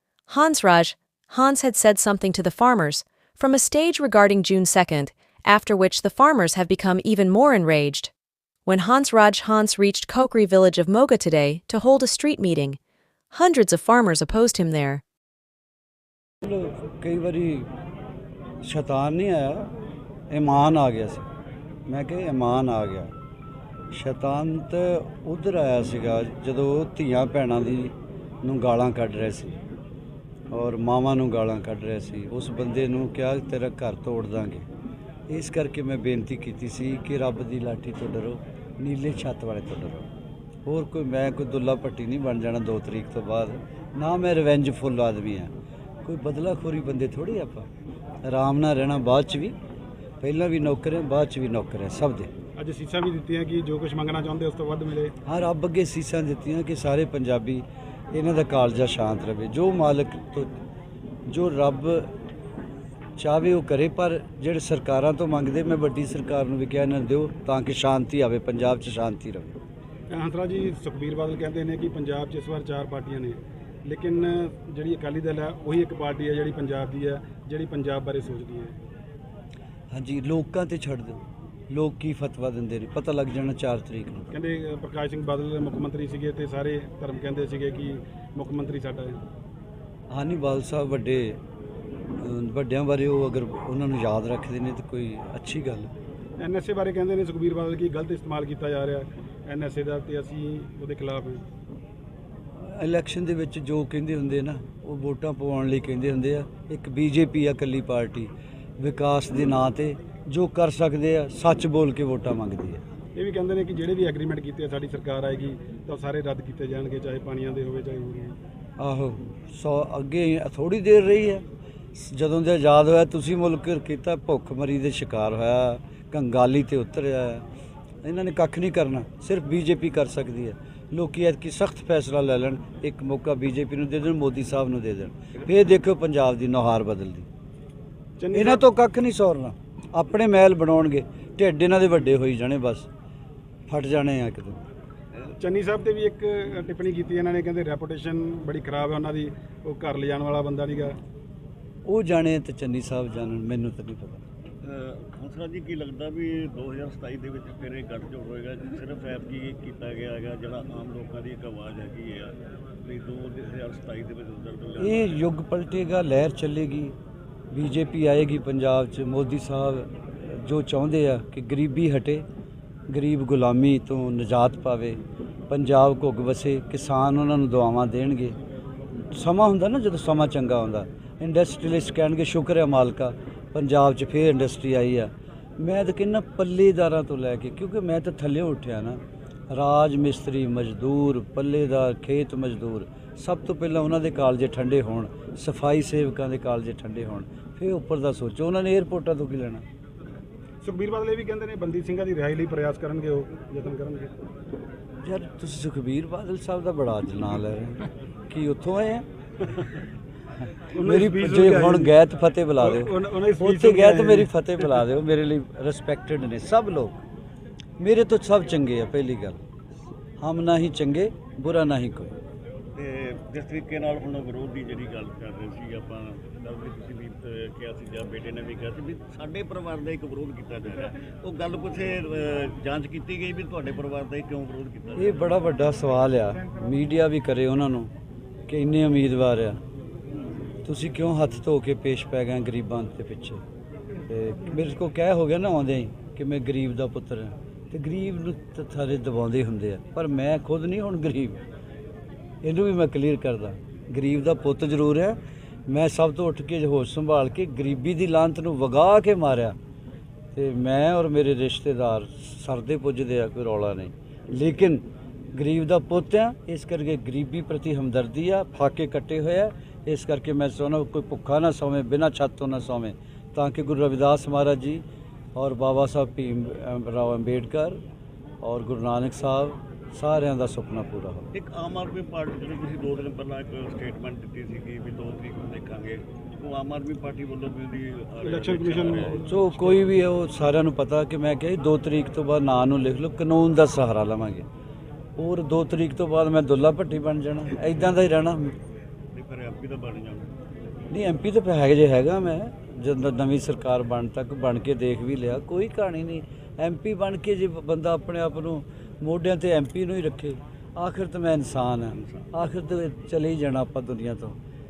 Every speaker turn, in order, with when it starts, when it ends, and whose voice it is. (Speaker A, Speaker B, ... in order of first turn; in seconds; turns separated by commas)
Speaker A: 0.3-8.1, Speaker A: 8.7-12.8, Speaker A: 13.3-15.0, Speaker B: 16.4-17.7, Speaker B: 18.6-19.7, Speaker B: 20.3-21.3, Speaker B: 21.9-23.1, Speaker B: 23.9-29.6, Speaker B: 30.5-34.6, Speaker B: 35.3-40.1, Speaker B: 40.6-45.5, Speaker B: 46.0-47.7, Speaker B: 48.2-49.5, Speaker B: 50.2-52.3, Speaker C: 52.5-55.1, Speaker B: 55.2-60.5, Speaker B: 61.3-62.1, Speaker B: 63.2-69.5, Speaker C: 70.1-78.7, Speaker B: 79.9-84.3, Speaker C: 84.3-89.2, Speaker B: 90.1-91.4, Speaker B: 92.2-95.9, Speaker C: 96.4-101.4, Speaker B: 102.5-112.8, Speaker C: 113.2-118.3, Speaker B: 118.8-121.4, Speaker B: 122.0-127.4, Speaker B: 128.0-137.3, Speaker C: 138.2-138.6, Speaker B: 138.3-142.9, Speaker B: 143.7-144.6, Speaker C: 145.4-151.0, Speaker B: 151.8-154.2, Speaker D: 154.6-165.2, Speaker B: 164.8-166.9, Speaker B: 167.5-172.2, Speaker B: 172.9-178.4, Speaker B: 179.1-199.6, Speaker C: 200.6-204.1, Speaker B: 205.0-209.0, Speaker C: 210.7-211.9, Speaker B: 210.8-217.0, Speaker C: 212.6-214.8, Speaker B: 217.8-219.4, Speaker B: 220.2-222.1, Speaker D: 222.7-235.2, Speaker B: 235.0-237.9, Speaker B: 238.5-239.6, Speaker B: 240.6-243.4, Speaker B: 244.1-251.4, Speaker B: 252.4-259.6, Speaker B: 260.3-274.8, Speaker B: 275.3-277.8, Speaker B: 278.4-281.3, Speaker D: 281.3-289.2, Speaker C: 288.2-289.9, Speaker B: 289.3-294.4, Speaker B: 295.2-298.5, Speaker D: 299.1-300.3, Speaker B: 300.9-314.4, Speaker D: 311.9-312.2